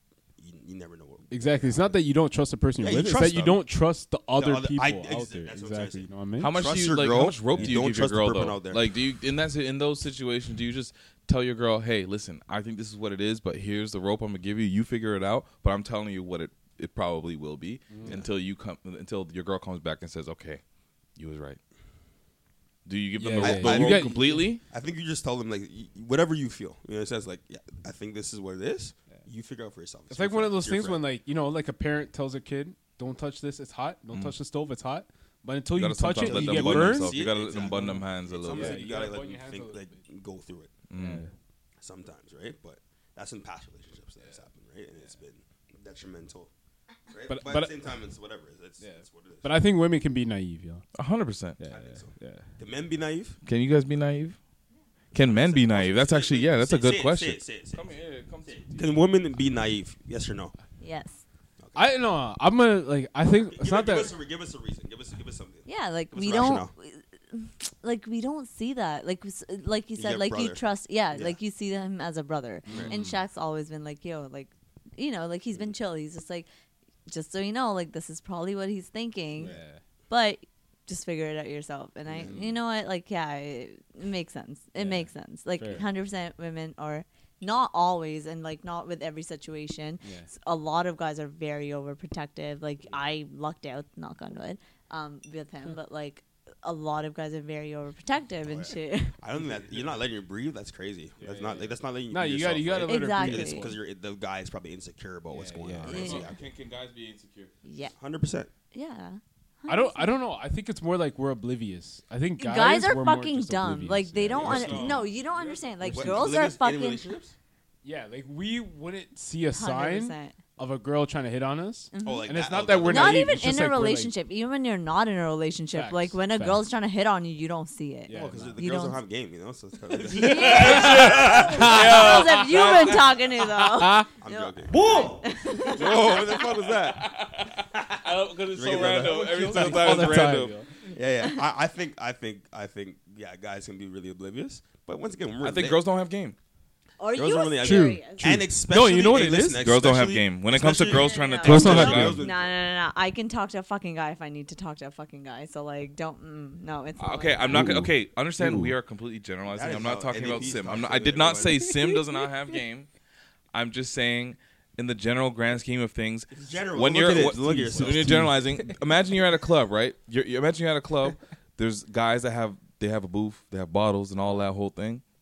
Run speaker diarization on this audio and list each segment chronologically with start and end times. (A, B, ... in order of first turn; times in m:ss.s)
0:00.4-0:01.9 A
0:01.3-0:06.5 B
0:02.8-0:03.6 A
0:04.4-0:08.8 A
0:06.4-0:20.6 C
0:17.9-0:18.2 B
0:21.2-0:21.6 C
0:22.8-0:24.6 C
0:23.2-0:24.5 B
0:23.4-0:31.0 A
0:30.1-0:40.0 B
0:35.7-0:38.9 C
0:36.2-0:40.7 A
0:40.9-0:41.2 C
0:40.9-0:41.3 B
0:41.8-0:46.5 A
0:44.2-0:45.2 B
0:47.1-0:49.5 A
0:47.3-0:47.8 B
0:48.8-0:50.8 B
0:50.9-0:51.6 C
0:51.6-0:52.5 B
0:51.7-0:53.4 A
0:53.4-0:54.4 C
0:55.1-0:58.7 C
0:55.1-0:57.9 A
0:58.4-1:00.5 A
1:00.8-1:01.2 D
1:01.6-1:01.9 A
1:01.8-1:04.1 B
1:03.5-1:06.7 A
1:05.6-1:16.5 D
1:09.9-1:11.4 A
1:12.6-1:13.2 B
1:12.7-1:12.9 A
1:17.1-1:19.6 D
1:19.4-1:19.8 B
1:20.1-1:39.2 D
1:22.1-1:22.4 A
1:22.2-1:22.6 B
1:24.7-1:25.9 B
1:30.0-1:30.3 B
1:38.4-1:46.4 A
1:39.3-1:40.0 B
1:41.2-1:43.8 B
1:42.8-1:43.7 D
1:45.3-1:46.0 B
1:45.8-1:47.5 C
1:45.9-1:46.3 D
1:47.6-1:47.9 D
1:48.0-1:48.5 A
1:48.7-1:50.2 D
1:49.7-1:54.7 B
1:52.4-1:57.1 D
1:54.3-1:55.2 C
1:54.4-1:54.9 A
1:55.4-1:56.1 B
1:55.8-1:57.3 A
1:57.8-2:04.2 B
1:59.5-2:00.4 D
2:01.9-2:02.3 D
2:02.0-2:03.4 A
2:02.8-2:09.0 D
2:05.7-2:06.6 B
2:08.0-2:08.6 B
2:08.1-2:12.0 A
2:10.1-2:13.1 C
2:10.1-2:16.2 D
2:10.3-2:12.2 B
2:13.7-2:14.1 B
2:14.2-2:15.1 A
2:14.7-2:15.2 C
2:15.6-2:17.1 A
2:16.4-2:20.5 C
2:17.7-2:25.8 A
2:19.0-2:20.7 B
2:21.2-2:21.4 D
2:25.4-2:26.4 C
2:27.0-2:28.4 D
2:27.1-2:32.5 A
2:27.6-2:29.6 B
2:29.6-2:32.2 C
2:30.8-2:37.6 D
2:31.4-2:32.2 B
2:37.0-2:42.9 C
2:37.5-2:38.8 B
2:39.5-2:41.7 A
2:43.5-2:55.0 C
2:46.3-2:48.3 A
2:47.4-2:48.7 B